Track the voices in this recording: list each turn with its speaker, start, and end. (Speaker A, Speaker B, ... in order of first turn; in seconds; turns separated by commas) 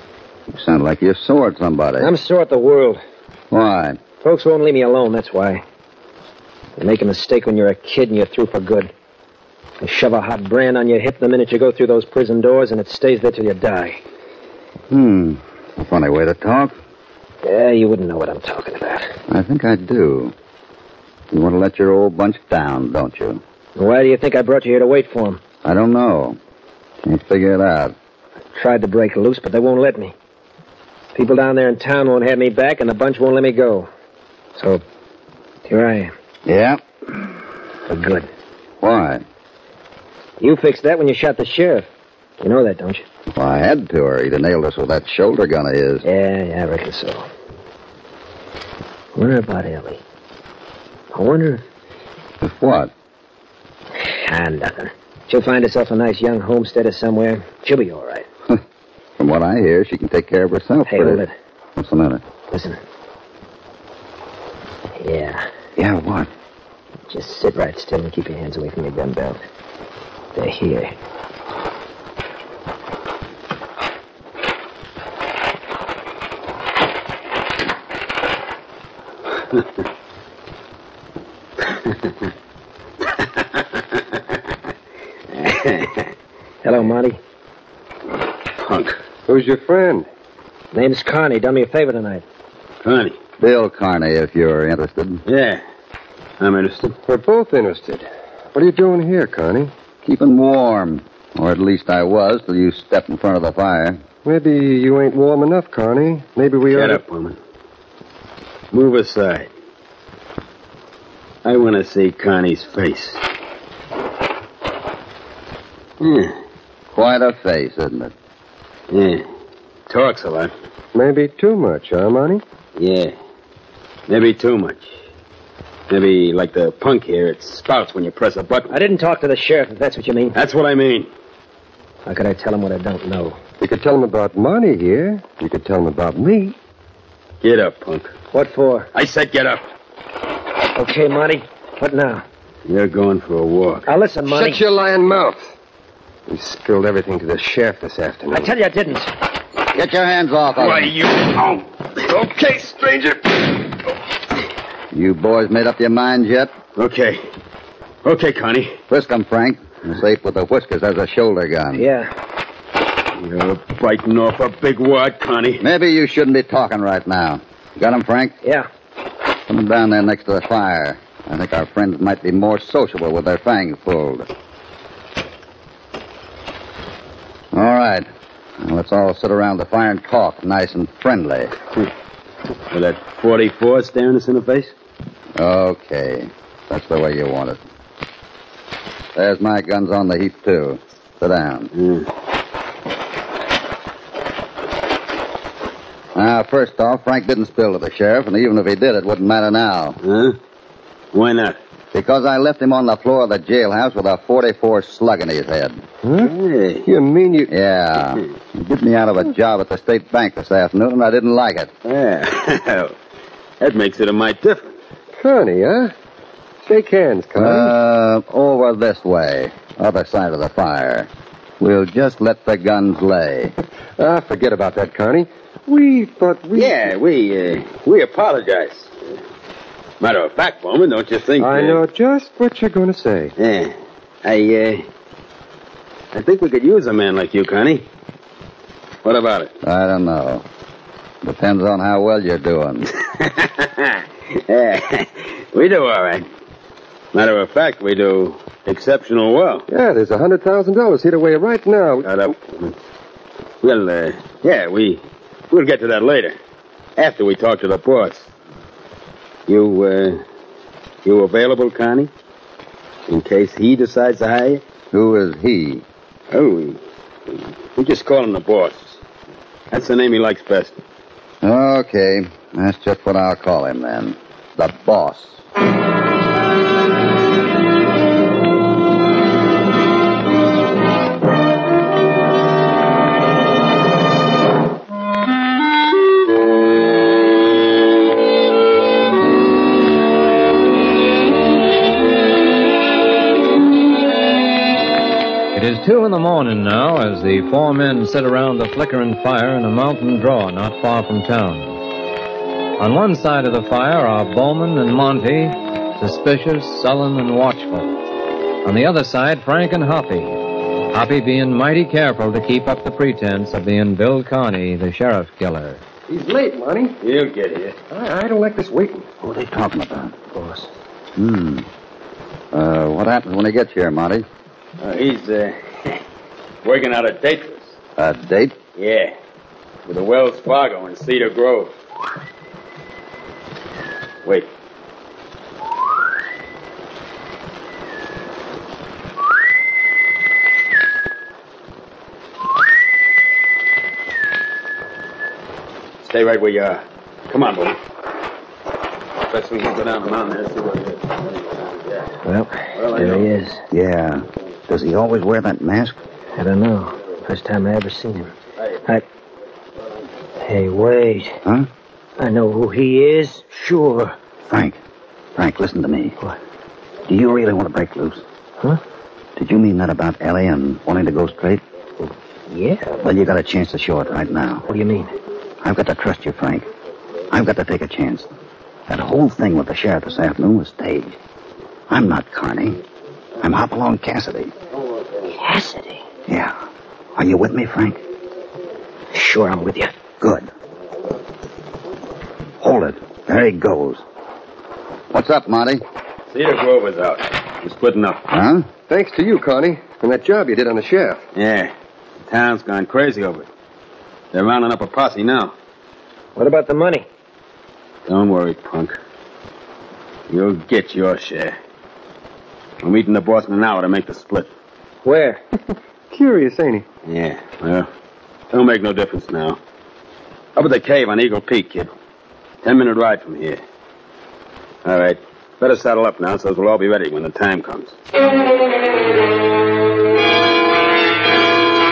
Speaker A: 0.5-2.1, Speaker B: 2.0-3.0, Speaker A: 3.5-4.0, Speaker B: 4.2-5.6, Speaker B: 6.8-8.9, Speaker B: 9.8-14.0, Speaker A: 14.9-16.8, Speaker B: 17.4-19.1, Speaker A: 19.3-20.3, Speaker A: 21.3-23.4, Speaker B: 23.8-25.4, Speaker A: 25.6-26.4, Speaker A: 27.0-27.9, Speaker B: 28.5-30.1, Speaker B: 31.1-33.9, Speaker B: 34.5-34.8, Speaker B: 35.6-36.1, Speaker A: 36.5-36.8, Speaker B: 37.9-38.3, Speaker A: 38.8-39.2, Speaker B: 40.4-41.9, Speaker B: 42.4-43.0, Speaker A: 43.3-46.0, Speaker B: 46.0-47.2, Speaker B: 49.1-50.0, Speaker B: 51.1-51.6, Speaker A: 52.4-52.9, Speaker B: 54.0-58.2, Speaker A: 59.2-61.2, Speaker B: 60.9-61.3, Speaker A: 61.8-62.2, Speaker B: 62.5-62.8, Speaker B: 65.0-65.4, Speaker A: 65.8-66.3, Speaker B: 67.1-69.4, Speaker B: 70.3-70.9, Speaker C: 85.3-86.0, Speaker B: 86.6-87.2, Speaker C: 88.6-89.0, Speaker D: 89.3-90.1, Speaker B: 90.7-92.2, Speaker C: 92.8-93.2, Speaker A: 93.4-95.2, Speaker C: 95.2-95.6, Speaker C: 96.4-96.9, Speaker D: 97.0-99.7, Speaker A: 100.0-104.0, Speaker D: 104.2-107.0, Speaker C: 106.7-107.4, Speaker C: 108.7-109.5, Speaker C: 111.4-113.2, Speaker C: 116.0-116.3, Speaker A: 116.9-118.1, Speaker C: 118.9-119.2, Speaker C: 119.9-120.5, Speaker D: 120.9-122.4, Speaker C: 122.8-123.1, Speaker C: 124.1-124.9, Speaker C: 125.9-128.7, Speaker B: 128.7-130.3, Speaker C: 130.3-131.1, Speaker B: 132.1-133.4, Speaker D: 133.6-136.5, Speaker C: 137.4-138.1, Speaker B: 138.3-138.9, Speaker C: 138.9-139.6, Speaker B: 140.8-142.2, Speaker C: 142.7-143.9, Speaker B: 143.9-144.6, Speaker D: 144.3-145.5, Speaker D: 146.3-148.5, Speaker B: 148.3-149.1, Speaker A: 149.7-150.9, Speaker D: 150.7-151.4, Speaker D: 152.1-153.5, Speaker A: 154.9-156.5, Speaker C: 156.8-157.2, Speaker C: 158.0-158.8, Speaker A: 158.9-161.8, Speaker B: 161.7-162.1, Speaker C: 163.2-165.6, Speaker A: 165.6-168.3, Speaker A: 169.5-174.3, Speaker A: 177.5-178.1, Speaker A: 178.6-181.5, Speaker C: 182.7-184.7, Speaker A: 185.4-187.6, Speaker A: 189.1-191.7, Speaker C: 191.7-192.1, Speaker A: 196.1-200.0, Speaker C: 200.0-200.4, Speaker C: 201.1-201.6, Speaker A: 201.9-205.8, Speaker D: 206.0-206.3, Speaker C: 206.2-206.8, Speaker D: 206.8-207.5, Speaker A: 207.5-211.7, Speaker C: 211.8-212.9, Speaker C: 213.6-214.7, Speaker D: 215.2-215.9, Speaker D: 216.6-217.7, Speaker A: 217.3-221.1, Speaker A: 221.6-223.5, Speaker D: 224.0-226.8, Speaker C: 226.5-228.9, Speaker C: 230.0-231.8, Speaker D: 231.4-233.3, Speaker C: 233.4-234.8, Speaker C: 236.1-237.8, Speaker C: 239.0-239.5, Speaker A: 239.6-240.4, Speaker A: 241.2-242.9, Speaker C: 243.2-246.2, Speaker C: 247.1-249.7, Speaker D: 249.7-252.3, Speaker C: 252.0-252.7, Speaker C: 253.6-256.4, Speaker C: 257.0-258.3, Speaker C: 259.5-260.2, Speaker C: 261.0-262.1, Speaker C: 263.1-264.6, Speaker A: 264.9-265.8, Speaker C: 266.3-269.0, Speaker C: 269.7-270.8, Speaker A: 271.4-275.4, Speaker E: 295.5-301.8, Speaker E: 302.8-307.9, Speaker E: 308.6-315.8, Speaker D: 316.1-316.9, Speaker C: 317.0-317.8, Speaker D: 317.9-319.1, Speaker A: 319.2-320.1, Speaker B: 320.3-320.7, Speaker A: 321.1-321.7, Speaker A: 322.5-324.2, Speaker C: 324.8-326.0, Speaker C: 326.6-327.8, Speaker A: 328.0-328.6, Speaker C: 328.8-329.1, Speaker C: 329.9-331.7, Speaker C: 346.0-347.8, Speaker C: 349.3-352.1, Speaker B: 352.2-353.6, Speaker C: 352.8-353.3, Speaker A: 353.7-356.0, Speaker B: 356.4-358.3, Speaker B: 360.4-361.4, Speaker B: 362.2-364.1, Speaker A: 364.5-364.8, Speaker A: 365.4-366.2, Speaker A: 367.1-368.2, Speaker A: 369.4-371.6, Speaker B: 372.5-372.9, Speaker A: 373.0-374.6, Speaker B: 374.7-375.1, Speaker A: 375.6-376.7, Speaker A: 377.3-378.3, Speaker A: 378.9-381.2, Speaker A: 381.9-382.8, Speaker A: 383.4-384.5, Speaker B: 385.4-386.0, Speaker A: 386.3-386.5, Speaker A: 387.1-388.0, Speaker B: 389.1-389.9, Speaker A: 390.2-390.5, Speaker A: 392.6-394.0, Speaker A: 395.1-395.8, Speaker C: 396.3-398.2, Speaker A: 398.3-398.6, Speaker D: 398.9-401.2, Speaker C: 401.3-401.7, Speaker C: 402.2-403.5, Speaker C: 404.3-405.5, Speaker B: 406.4-407.1, Speaker C: 408.1-409.0, Speaker C: 410.3-411.6, Speaker C: 412.8-414.5, Speaker B: 415.0-415.4, Speaker D: 416.1-416.8, Speaker C: 417.1-417.9, Speaker C: 418.5-419.6, Speaker C: 420.6-421.9, Speaker C: 422.6-423.6, Speaker C: 424.8-427.9